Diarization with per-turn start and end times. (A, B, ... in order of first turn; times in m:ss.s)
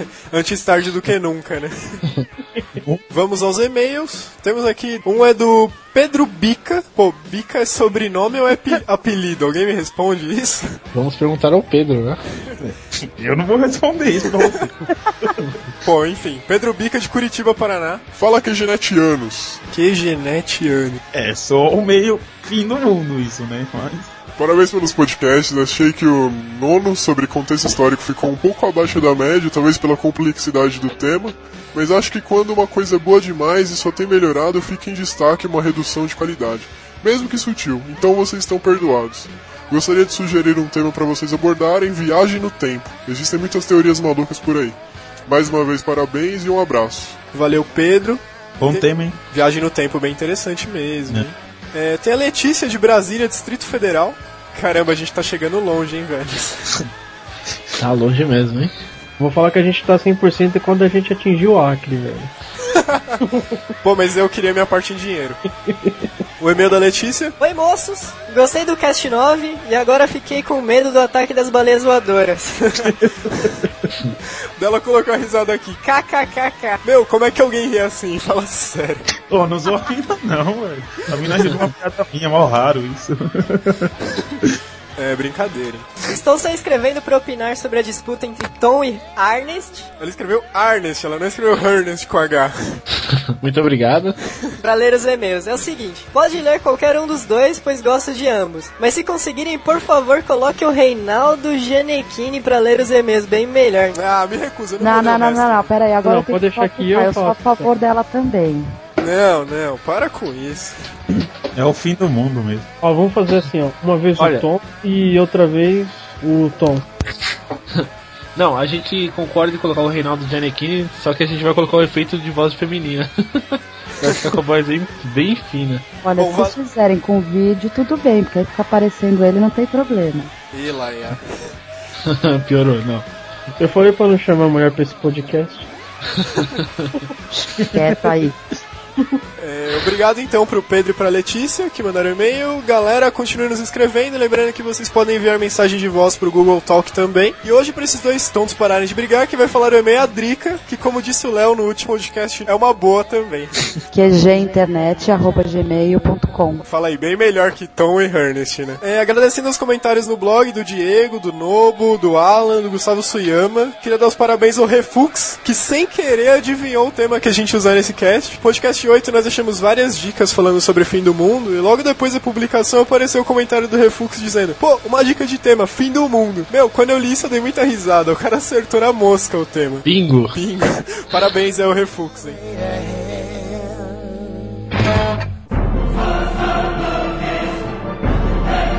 0:00.3-0:02.0 A
0:02.8-0:03.0 B
0:03.1-0:10.8 A
0:10.9-0:12.2 C
0:12.6-0:15.3 B
0:15.8-0:18.0 A
0:18.2-0:19.6 D
0:19.7-0:21.0 A
0:21.1-0:24.1 B
0:24.4-0:44.8 D
0:45.3-0:47.2 D
0:47.3-0:56.8 A
0:48.6-0:49.2 B
0:57.8-0:58.7 C
0:59.2-1:02.3 E
1:02.7-1:03.2 A
1:03.2-1:03.6 E
1:03.8-1:05.4 A
1:05.7-1:06.0 E
1:06.4-1:07.4 A
1:07.4-1:12.6 F
1:12.7-1:12.9 A
1:12.8-1:13.7 B
1:14.6-1:16.0 A
1:15.9-1:16.8 F
1:16.8-1:19.0 A
1:19.3-1:24.5 B
1:25.0-1:26.0 A
1:26.0-1:29.9 F
1:30.0-1:32.5 A
1:33.4-1:34.2 C
1:34.6-1:44.0 F
1:43.9-1:45.7 A
1:44.8-1:48.7 G
1:46.0-1:47.7 E
1:49.0-1:50.8 A
1:51.5-1:52.7 B
1:52.8-1:56.8 E
1:54.2-1:54.5 C
1:57.7-2:05.8 C
2:06.0-2:10.3 G
2:06.2-2:06.5 A
2:10.5-2:11.2 A
2:12.0-2:13.0 C
2:13.6-2:15.7 E
2:16.1-2:16.9 C
2:17.3-2:18.4 G
2:17.6-2:17.9 B
2:19.4-2:33.5 A
2:33.9-2:36.6 G
2:36.6-3:02.4 A
2:59.8-3:00.4 C